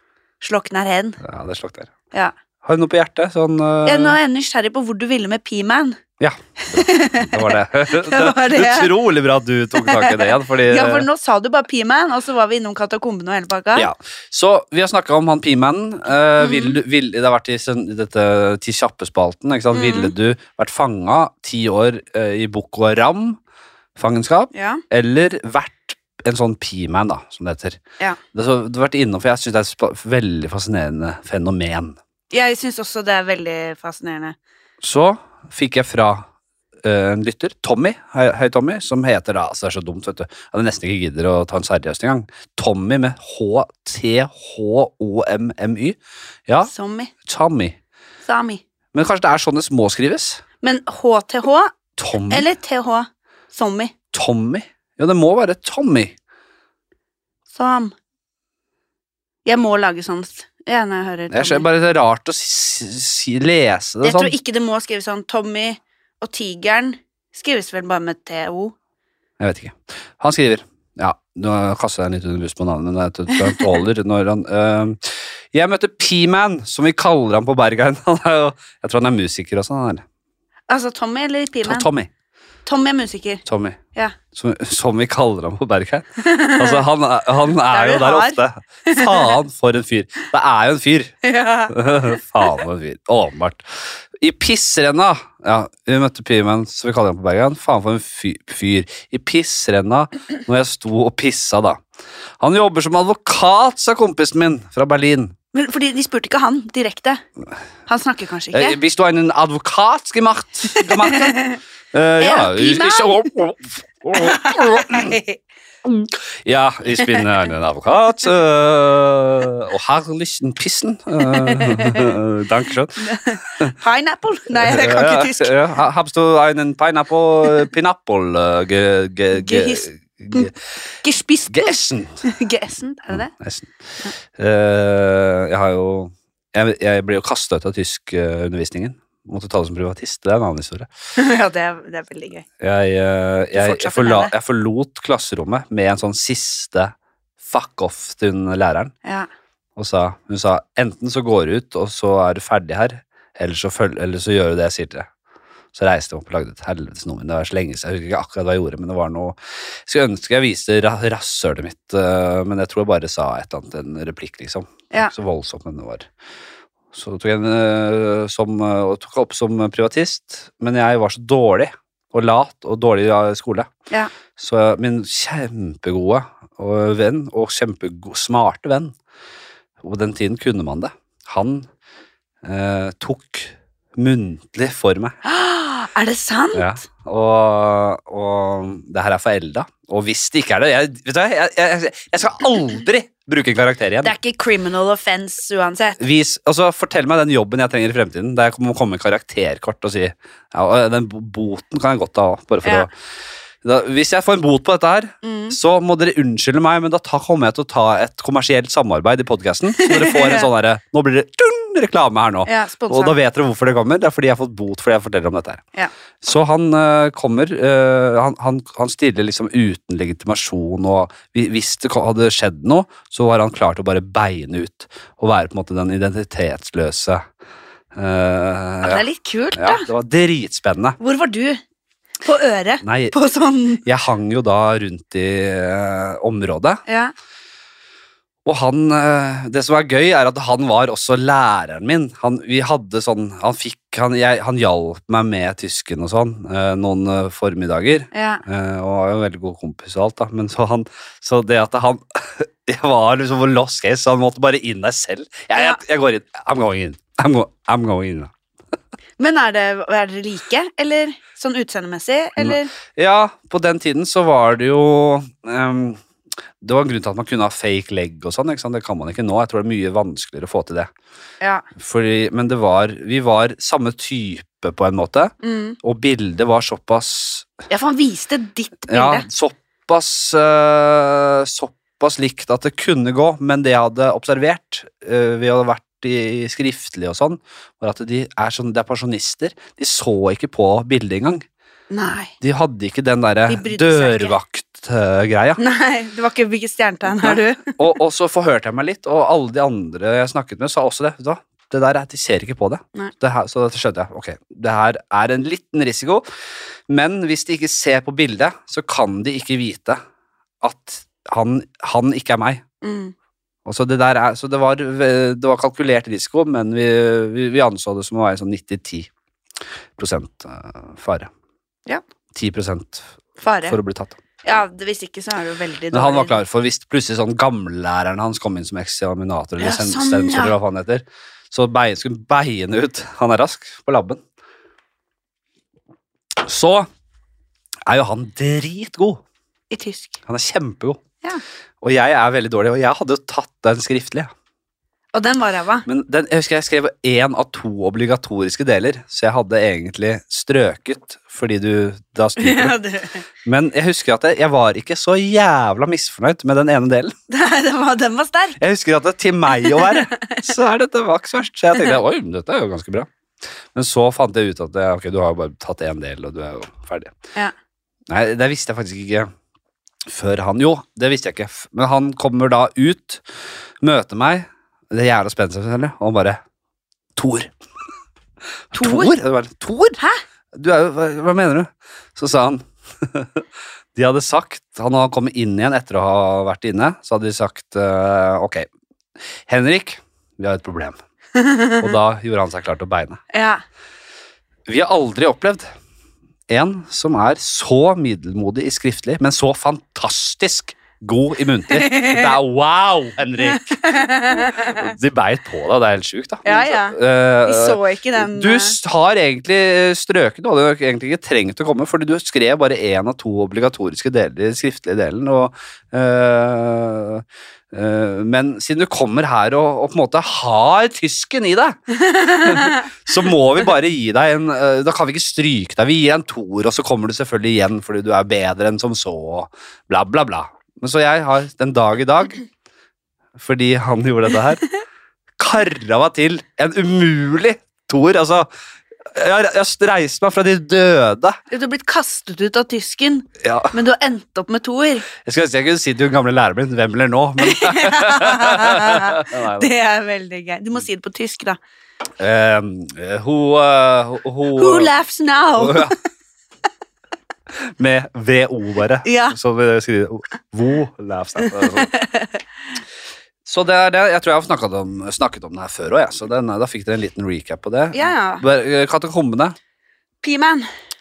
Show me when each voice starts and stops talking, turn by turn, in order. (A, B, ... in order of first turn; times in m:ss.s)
0:00.4-0:01.2 A
0:01.2-0:01.9 B
0:02.6-0:04.2 B
0:03.8-0:06.0 A
0:06.2-0:11.1 B
0:06.6-0:08.9 A
0:09.7-0:13.9 A
0:13.8-0:23.4 B
0:16.4-0:16.8 A
0:19.7-0:20.1 A
0:24.0-0:27.8 B
0:24.5-0:24.8 A
0:28.3-0:32.0 B
0:32.3-0:34.4 A
0:34.8-0:36.2 B
0:36.8-0:46.7 B
0:46.6-0:47.1 A
0:47.2-0:47.8 B
0:48.2-0:48.6 A
0:48.9-0:50.4 B
0:50.6-0:51.7 A
0:52.0-0:52.5 B
0:52.3-0:53.9 A
0:54.1-0:56.1 B
0:57.5-0:57.9 A
0:59.4-1:01.7 A
1:01.3-1:04.4 B
1:04.0-1:08.8 A
1:09.4-1:20.0 B
1:20.7-1:21.9 A
1:21.6-1:22.1 B
1:22.6-1:23.4 A
1:23.4-1:23.8 B
1:24.3-1:31.2 B
1:26.2-1:26.8 A
1:27.7-1:29.3 A
1:31.2-1:32.6 A
1:31.7-1:33.6 B
1:34.2-1:41.8 B
1:42.4-1:45.4 B
1:45.5-1:47.2 A
1:47.9-1:48.8 A
1:48.5-1:55.2 B
1:50.8-1:51.6 A
1:52.2-1:53.2 A
1:54.2-1:55.4 A
1:55.9-2:03.7 B
1:56.9-1:57.2 A
2:01.2-2:02.1 A
2:03.0-2:05.5 A
2:04.6-2:10.6 B
2:09.3-2:10.5 A
2:11.0-2:13.3 A
2:11.5-2:12.2 B
2:13.1-2:13.8 B
2:14.3-2:20.9 B
2:21.2-2:22.5 A
2:22.6-2:28.9 B
2:23.5-2:24.3 A
2:29.0-2:29.3 A
2:29.8-2:35.1 B
2:35.7-2:46.1 B
2:46.9-2:53.7 B
2:54.4-2:58.9 B
2:59.8-3:01.7 B
3:02.4-3:05.2 B
3:05.2-3:06.7 A
3:06.5-3:14.1 B
3:14.0-3:16.0 A
3:16.0-3:22.9 B
3:23.6-3:35.6 B
3:25.2-3:25.6 A
3:29.8-3:30.5 A
3:32.5-3:33.2 A
3:36.2-3:47.2 B
3:48.0-3:49.0 B
3:48.8-3:49.9 A
3:49.6-3:51.0 B
3:51.0-3:51.6 A
3:52.2-3:53.8 A
3:52.8-3:53.2 B
3:53.8-3:56.8 B
3:56.9-3:57.1 A
3:58.4-4:18.3 B
4:08.1-4:08.4 A
4:19.2-4:22.7 A
4:22.4-4:26.0 B
4:26.6-4:30.9 B
4:31.4-4:31.7 A
4:31.8-4:37.5 B
4:35.4-4:35.8 A
4:37.7-4:39.3 A
4:38.9-4:51.4 B
4:51.9-4:52.3 A
4:52.4-4:55.6 B
4:53.5-4:54.4 A
4:55.6-4:57.8 A
4:57.2-5:06.2 B
5:06.9-5:10.0 B
5:10.6-5:12.6 B
5:12.8-5:13.1 A
5:13.6-5:19.1 B
5:20.0-5:21.3 B
5:22.3-5:23.1 B
5:23.4-5:23.8 A
5:23.7-5:24.2 B
5:24.4-5:26.4 A
5:25.9-5:34.2 B
5:29.6-5:30.6 A
5:36.4-5:36.9 B
5:37.9-5:39.2 B
5:39.7-5:40.2 A
5:40.2-5:41.0 B
5:41.8-5:44.3 B
5:45.1-5:45.8 A
5:45.9-5:52.8 B
5:52.4-5:53.2 A
5:53.4-5:57.2 B
5:57.3-5:58.6 A
5:58.6-6:03.1 B
5:59.6-6:00.4 A
6:03.8-6:07.2 B
6:08.1-6:09.3 B
6:10.1-6:13.2 B
6:13.8-6:16.4 B
6:17.2-6:17.5 B
6:18.7-6:20.0 B
6:18.7-6:19.1 A
6:20.5-6:23.4 B
6:24.0-6:28.7 B
6:29.5-6:31.0 B
6:31.4-6:31.9 A
6:31.8-6:33.2 B
6:33.3-6:33.6 A
6:34.7-6:35.7 B
6:36.5-7:12.4 B
6:41.7-6:42.4 A
6:43.4-6:44.9 A
6:46.4-6:48.8 A
7:02.1-7:02.8 A
7:13.4-7:14.7 B
7:15.4-7:18.5 B
7:19.1-7:21.4 B
7:21.5-7:25.1 A
7:23.4-7:23.7 B
7:25.2-7:29.7 B
7:27.4-7:31.6 A
7:32.2-7:34.9 B
7:34.6-7:36.0 A
7:35.6-7:36.0 B
7:37.8-7:41.9 B
7:39.0-7:39.4 A
7:41.4-7:42.4 A
7:43.5-7:49.6 B
7:47.9-7:48.4 A
7:50.2-7:50.7 A